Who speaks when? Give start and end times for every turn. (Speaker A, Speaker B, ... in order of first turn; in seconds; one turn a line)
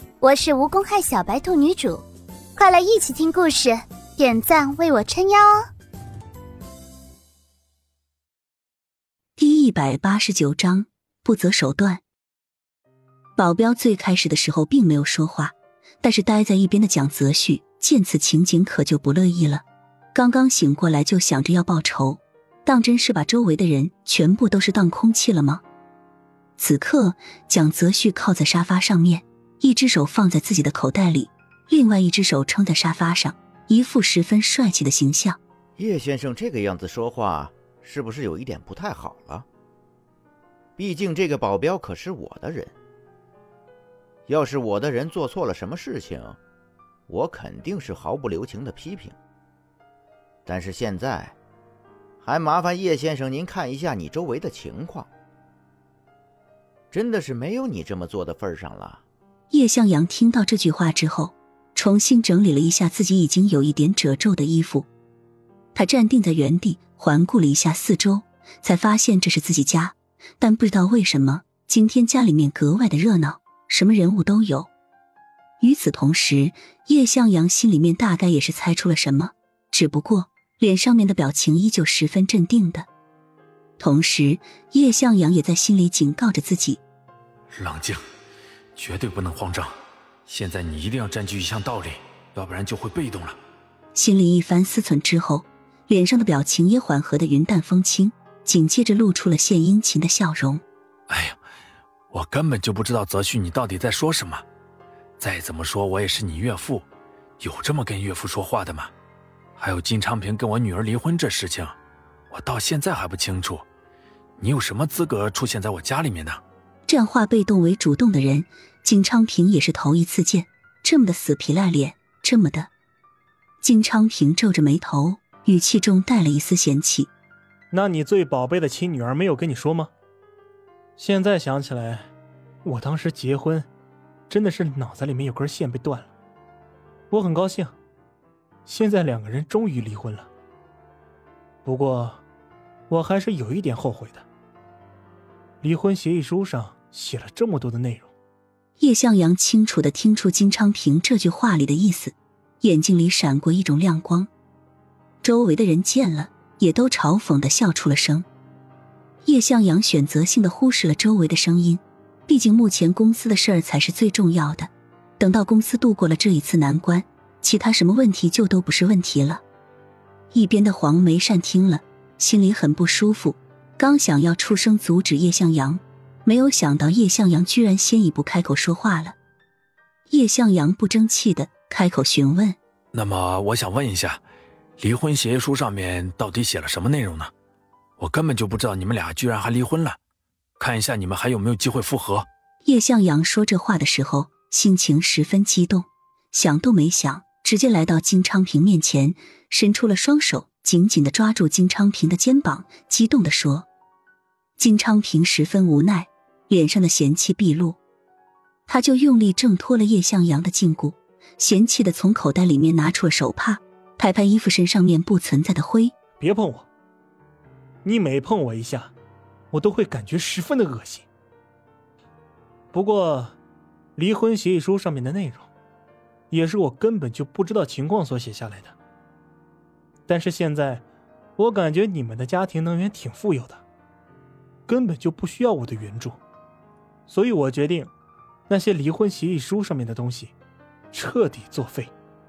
Speaker A: 0.2-2.0
Speaker A: 2.6-5.7
Speaker B: 9.4-12.0
Speaker B: 13.4-25.6
Speaker B: 26.6-35.4
Speaker C: 35.8-39.5
Speaker C: 40.8-42.7
Speaker C: 44.3-46.4
Speaker C: 47.1-49.2
Speaker C: 50.5-51.4
Speaker C: 52.2-55.1
Speaker C: 56.9-59.0
Speaker B: 59.5-64.9
Speaker B: 65.8-74.7
Speaker B: 75.6-82.9
Speaker B: 83.8-86.8
Speaker D: 87.5-88.0
Speaker D: 88.8-89.7
Speaker D: 90.3-93.4
Speaker B: 94.0-100.6
Speaker D: 101.1-101.4
Speaker D: 102.1-104.4
Speaker D: 105.2-106.9
Speaker D: 107.4-108.9
Speaker D: 109.6-111.8
Speaker D: 112.3-113.7
Speaker D: 114.4-116.4
Speaker B: 116.9-122.7
Speaker B: 123.6-127.1
Speaker E: 127.7-129.9
Speaker E: 131.0-132.1
Speaker E: 132.6-133.7
Speaker E: 134.3-136.1
Speaker E: 137.1-137.8
Speaker E: 138.7-140.3
Speaker E: 141.7-142.2
Speaker E: 142.9-144.2
Speaker E: 145.6-148.1
Speaker B: 148.8-154.3
Speaker B: 155.2-158.3
Speaker B: 159.2-169.4
Speaker B: 170.3-179.2
Speaker B: 180.1-182.6
Speaker D: 182.9-184.2
Speaker D: 184.8-187.3
Speaker D: 188.0-190.0
Speaker D: 190.6-192.3
Speaker B: 192.7-203.7
Speaker B: 204.6-207.8
Speaker B: 208.7-215.9
Speaker E: 216.2-216.7
Speaker E: 217.8-218.9
Speaker E: 219.5-221.1
Speaker E: 222.7-223.4
Speaker E: 224.0-225.5
Speaker E: 226.3-228.8
Speaker E: 230.1-230.8
Speaker E: 231.4-233.6
Speaker E: 234.7-236.2
Speaker E: 237.1-237.9
Speaker E: 238.5-240.3
Speaker E: 240.9-241.9